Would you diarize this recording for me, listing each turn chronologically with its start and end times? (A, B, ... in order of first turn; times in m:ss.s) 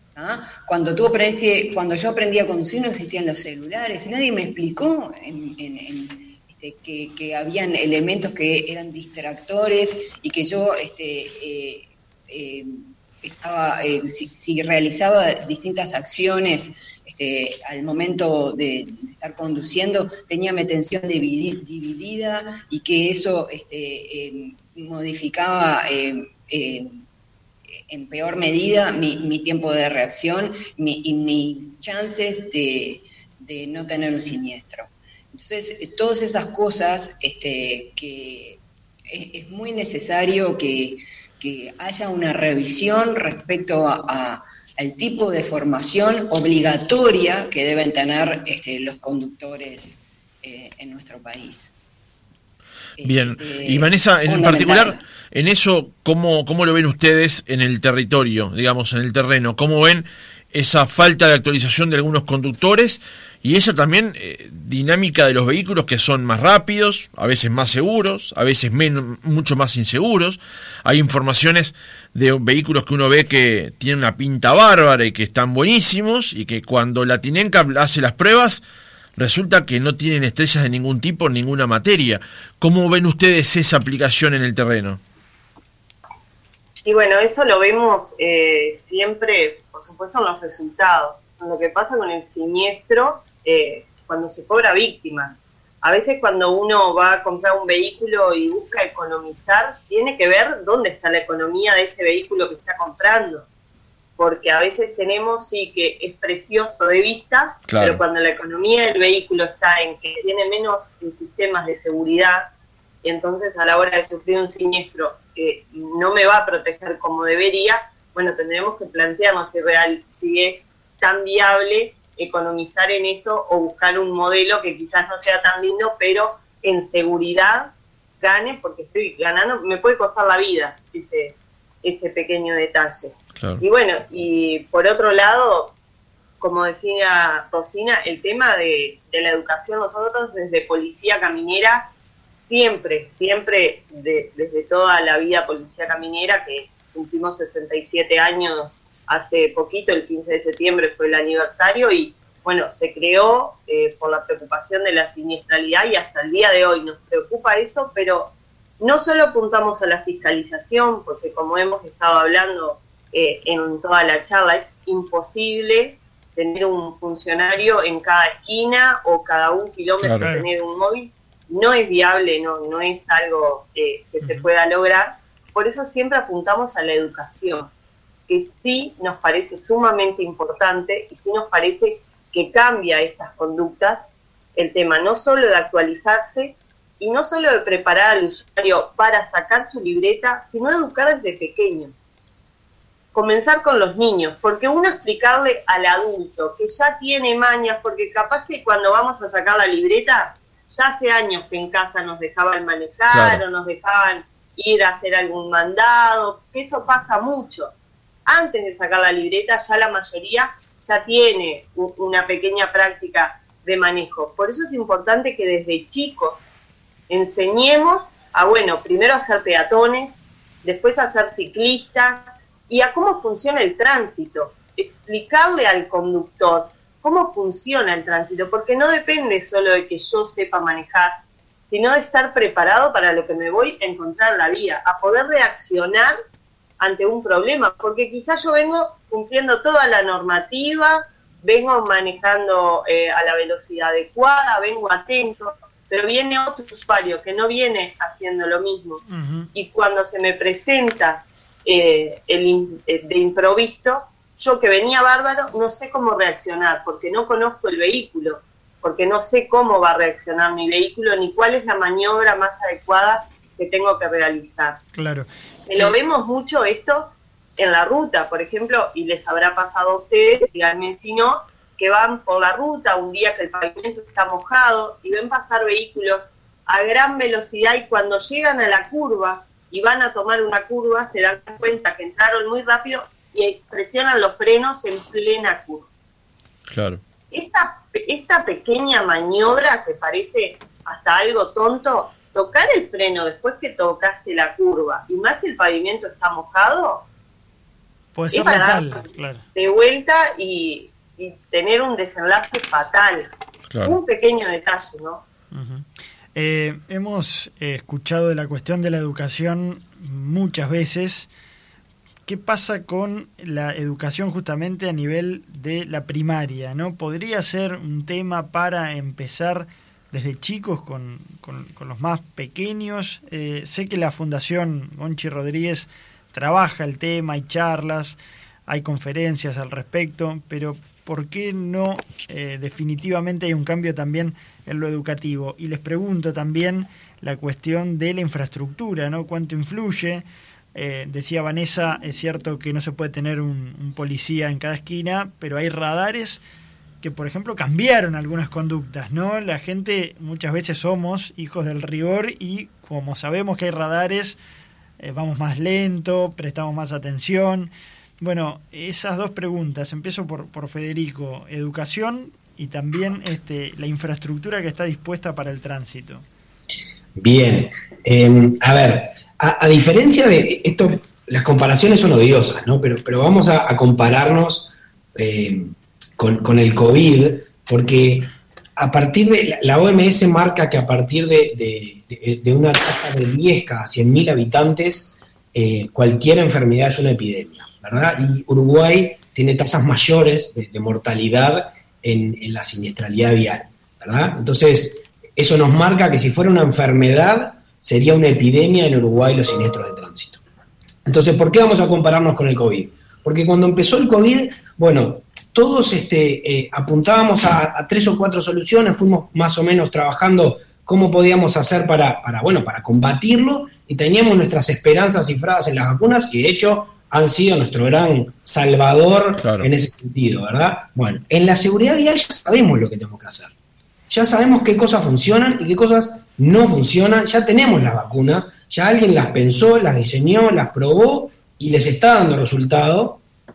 0:00.2-0:27.0 A
0:27.9-0:51.8 A
0:53.0-0:55.0 A
0:53.0-1:18.6 B
1:19.2-1:25.0 B
1:26.8-1:43.5 C
1:44.2-1:52.5 C
1:47.7-1:48.0 B
1:53.0-2:15.7 C
2:13.4-2:13.6 B
2:16.4-2:57.7 C
2:50.0-2:50.3 B
2:50.2-2:50.5 D
2:54.2-2:54.5 D
2:58.3-3:04.0 C
3:04.6-3:11.9 C
3:13.1-3:27.7 C
3:23.1-3:23.4 B
3:28.3-3:36.4 C
3:37.1-3:51.2 C
3:51.7-3:56.1 C
3:56.8-4:09.0 C
4:09.1-4:09.5 D
4:09.5-4:24.8 C
4:24.9-4:26.0 D
4:25.7-4:45.9 C
4:46.7-4:47.0 B
4:47.3-4:57.1 C
4:58.2-4:59.4 D
4:58.3-5:05.2 C
5:03.7-5:04.0 B
5:05.5-5:11.3 D
5:12.3-5:46.4 D
5:47.0-5:54.4 D
5:55.0-6:06.2 D
6:07.2-6:40.4 E
6:41.1-7:03.5 E
6:59.4-6:59.7 B
7:04.1-7:13.2 E